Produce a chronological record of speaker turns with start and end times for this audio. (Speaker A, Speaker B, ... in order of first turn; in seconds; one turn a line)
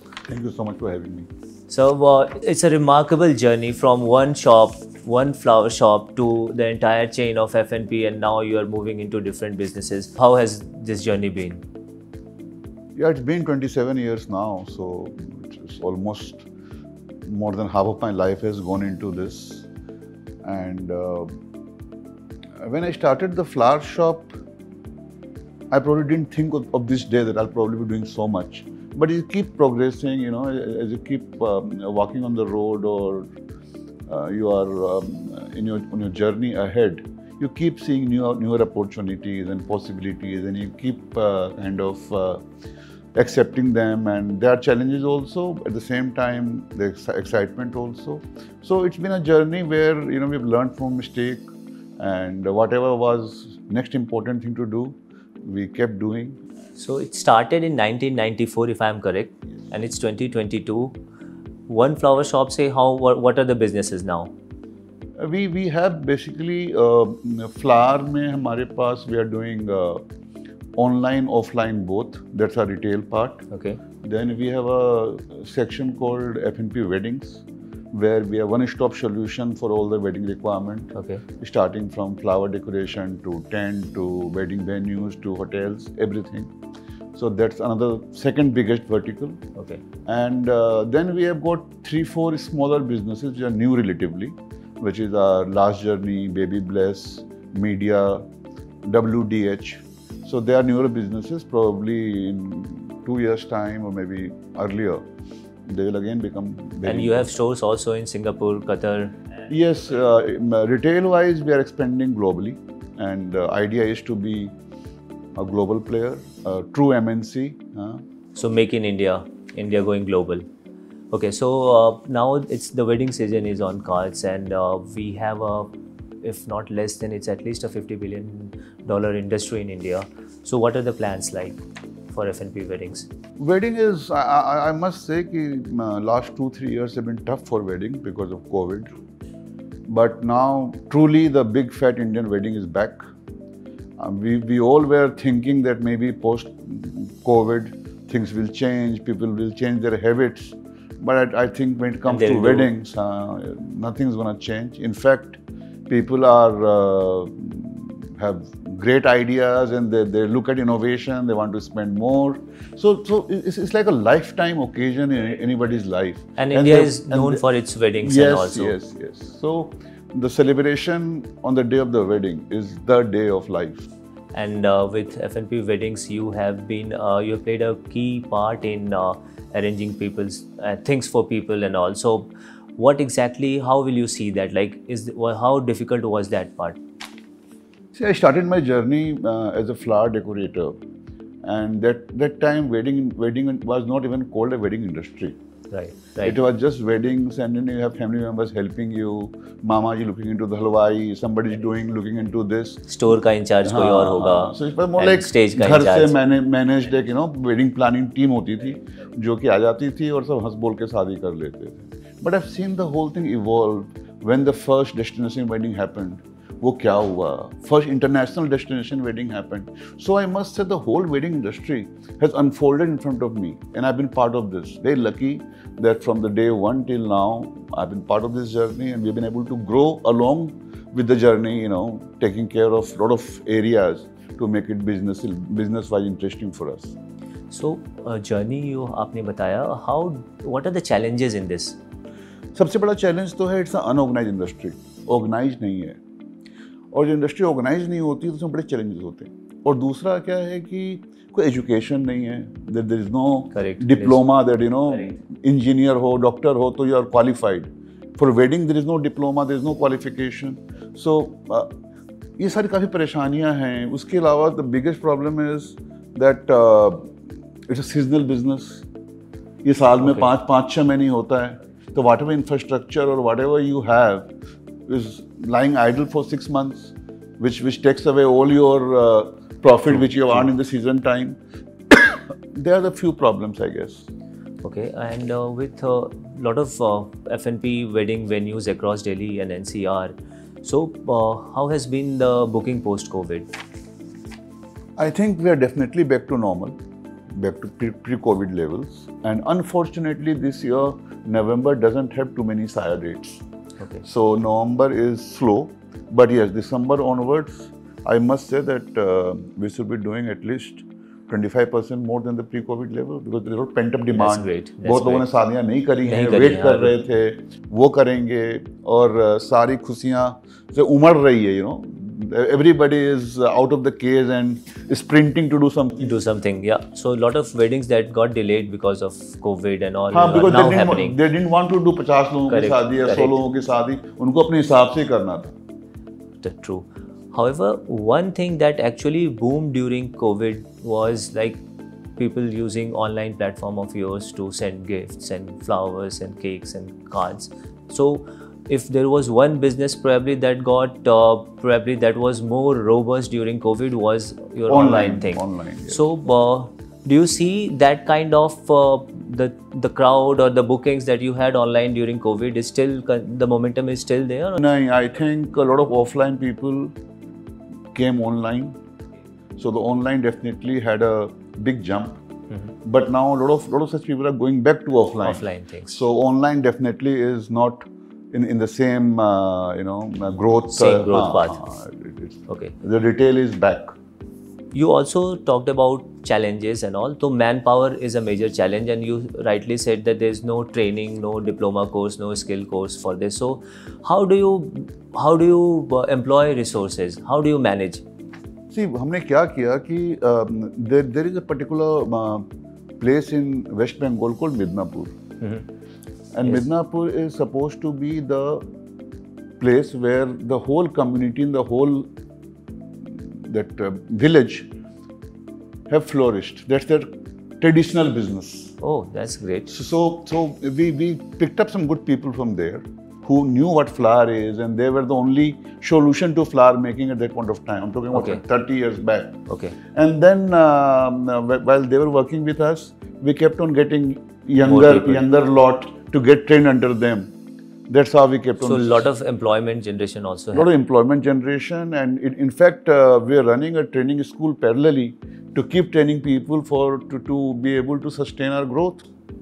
Speaker A: 0.2-1.3
Speaker B: 1.7-11.6
Speaker A: 12.9-16.4
Speaker A: 17.2-19.7
Speaker A: 20.4-21.3
Speaker A: 22.6-24.3
Speaker A: 25.7-33.3
Speaker A: 34.1-42.4
Speaker A: 43.1-51.5
Speaker A: 52.0-56.4
Speaker B: 56.8-61.0
Speaker B: 61.7-64.3
Speaker A: 65.2-70.0
Speaker A: 70.8-73.4
Speaker B: 73.5-73.8
Speaker A: 74.0-86.5
Speaker B: 80.9-81.2
Speaker A: 87.1-89.4
Speaker B: 89.5-89.8
Speaker A: 90.0-98.2
Speaker A: 98.8-105.0
Speaker A: 105.7-107.3
Speaker B: 106.8-109.2
Speaker A: 109.5-114.5
Speaker A: 115.3-118.0
Speaker B: 118.3-120.4
Speaker B: 121.1-125.7
Speaker B: 126.2-133.1
Speaker A: 133.4-138.9
Speaker A: 139.8-143.0
Speaker A: 144.0-155.4
Speaker B: 152.1-152.7
Speaker A: 155.9-167.4
Speaker B: 166.4-168.8
Speaker A: 168.0-173.8
Speaker B: 174.3-186.8
Speaker A: 187.9-190.7
Speaker A: 191.4-195.3
Speaker B: 195.7-196.3
Speaker A: 196.2-202.8
Speaker B: 202.9-206.2
Speaker A: 203.6-236.9
Speaker B: 237.5-241.8
Speaker A: 242.5-246.0
Speaker A: 246.9-261.7
Speaker B: 253.5-254.2
Speaker A: 262.4-267.1
Speaker A: 267.7-268.9
Speaker A: 269.6-274.3
Speaker B: 270.0-270.3
Speaker A: 274.9-281.4
Speaker B: 280.0-280.4
Speaker A: 281.9-284.1
Speaker B: 284.6-293.5
Speaker A: 295.0-296.8
Speaker A: 297.3-303.4
Speaker A: 304.0-326.1
Speaker B: 314.1-315.3
Speaker B: 316.0-317.0
Speaker B: 326.0-331.2
Speaker A: 330.1-335.5
Speaker B: 332.5-333.4
Speaker B: 336.4-341.6
Speaker B: 342.2-364.6
Speaker A: 354.7-356.0
Speaker A: 364.6-366.9
Speaker A: 367.9-368.7
Speaker A: 369.6-372.2
Speaker A: 372.8-383.9
Speaker B: 375.2-376.0
Speaker B: 380.7-381.6
Speaker B: 382.5-382.7
Speaker B: 384.7-398.0
Speaker A: 398.7-402.5
Speaker A: 403.0-405.1
Speaker A: 406.3-408.6
Speaker A: 409.6-412.1
Speaker A: 413.0-414.7
Speaker A: 415.9-418.7
Speaker B: 418.8-419.7
Speaker A: 419.7-429.4
Speaker B: 428.1-428.4
Speaker B: 429.5-429.7
Speaker A: 429.9-437.3
Speaker B: 434.6-435.2
Speaker A: 437.9-439.0
Speaker B: 438.6-440.7
Speaker A: 440.5-449.0